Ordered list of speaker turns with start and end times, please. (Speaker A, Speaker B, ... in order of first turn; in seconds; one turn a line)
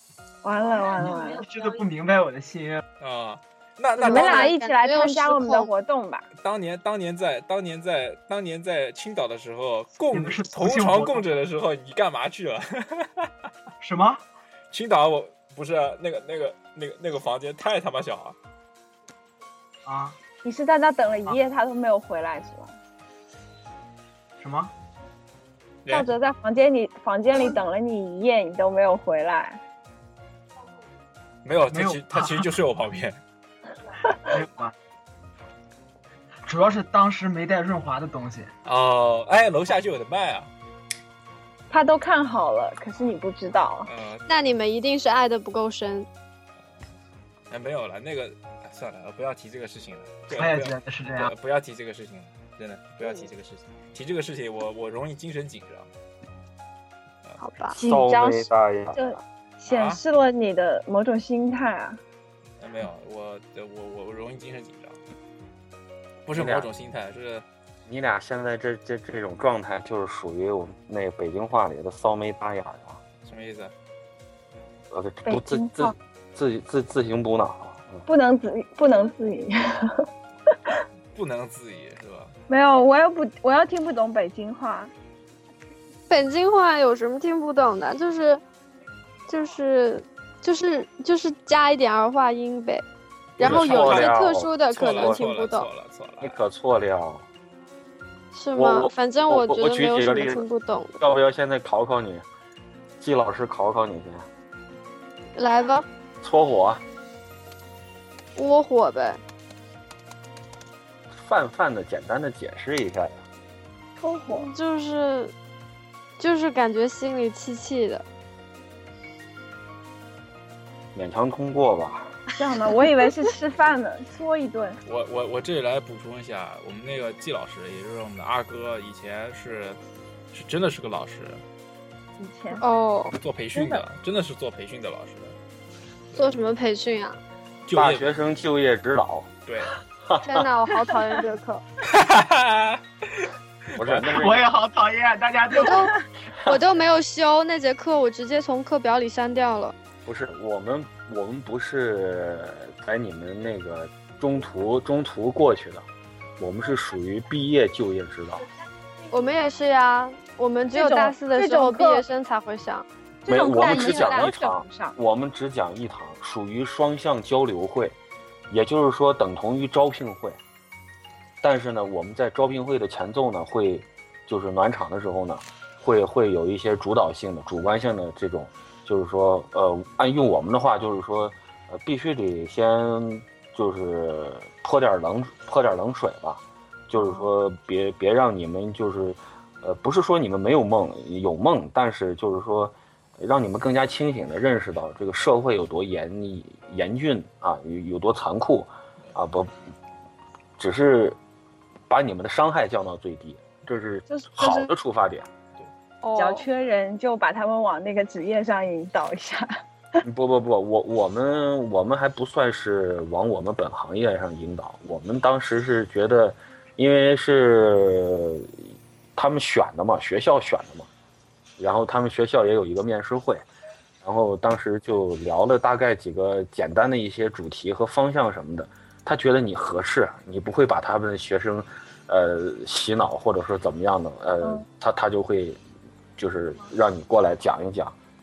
Speaker A: 0.4-1.4
Speaker B: 1.0-2.8
Speaker C: 3.0-4.5
Speaker D: 4.0-5.7
Speaker A: 4.0-6.3
Speaker C: 6.4-13.3
Speaker B: 10.1-11.3
Speaker B: 13.8-14.2
Speaker C: 14.7-18.4
Speaker B: 19.9-20.2
Speaker A: 20.4-22.7
Speaker B: 24.4-24.7
Speaker A: 25.9-29.6
Speaker C: 31.4-33.2
Speaker B: 31.7-32.5
Speaker B: 34.2-34.7
Speaker B: 36.5-38.5
Speaker C: 38.6-40.5
Speaker A: 41.7-43.9
Speaker C: 43.8-44.3
Speaker D: 44.3-46.1
Speaker C: 47.5-55.9
Speaker B: 50.3-51.3
Speaker D: 57.4-57.8
Speaker A: 57.8-62.0
Speaker E: 57.8-59.2
Speaker C: 59.7-60.0
Speaker C: 62.6-65.0
Speaker C: 66.2-67.4
Speaker E: 66.3-66.7
Speaker E: 67.9-73.0
Speaker C: 73.2-73.7
Speaker E: 74.9-78.0
Speaker A: 75.3-75.9
Speaker A: 78.0-80.0
Speaker C: 81.1-82.3
Speaker A: 82.5-84.9
Speaker D: 86.1-88.4
Speaker D: 89.3-92.8
Speaker D: 93.4-95.7
Speaker C: 93.4-96.4
Speaker E: 93.4-95.2
Speaker E: 96.2-97.2
Speaker D: 98.3-101.0
Speaker E: 98.5-100.4
Speaker E: 101.0-102.2
Speaker E: 103.0-104.2
Speaker D: 105.3-105.8
Speaker E: 106.2-106.8
Speaker D: 108.3-109.2
Speaker E: 111.1-113.2
Speaker A: 114.0-114.5
Speaker D: 114.3-115.3
Speaker D: 116.2-118.0
Speaker E: 120.9-122.1
Speaker A: 122.4-124.8
Speaker C: 124.8-129.8
Speaker C: 130.3-131.4
Speaker A: 132.2-132.6
Speaker D: 132.6-133.8
Speaker C: 133.2-135.3
Speaker D: 136.1-137.2
Speaker C: 137.7-138.2
Speaker E: 137.7-139.3
Speaker C: 139.4-139.8
Speaker E: 140.0-140.5
Speaker D: 140.2-141.6
Speaker C: 141.8-144.0
Speaker E: 143.7-144.4
Speaker B: 144.0-145.9
Speaker D: 145.5-145.9
Speaker D: 146.4-149.7
Speaker E: 150.0-155.8
Speaker E: 156.4-158.4
Speaker D: 159.1-162.8
Speaker A: 160.7-162.1
Speaker A: 163.2-164.9
Speaker E: 163.3-167.9
Speaker D: 163.5-164.3
Speaker E: 168.5-170.4
Speaker E: 171.4-199.5
Speaker A: 187.0-187.2
Speaker E: 200.6-201.2
Speaker E: 201.9-205.3
Speaker A: 204.1-204.7
Speaker D: 206.0-206.4
Speaker A: 206.2-209.5
Speaker E: 210.0-218.6
Speaker E: 219.1-220.9
Speaker E: 221.6-223.4
Speaker E: 224.0-235.6
Speaker E: 236.2-237.9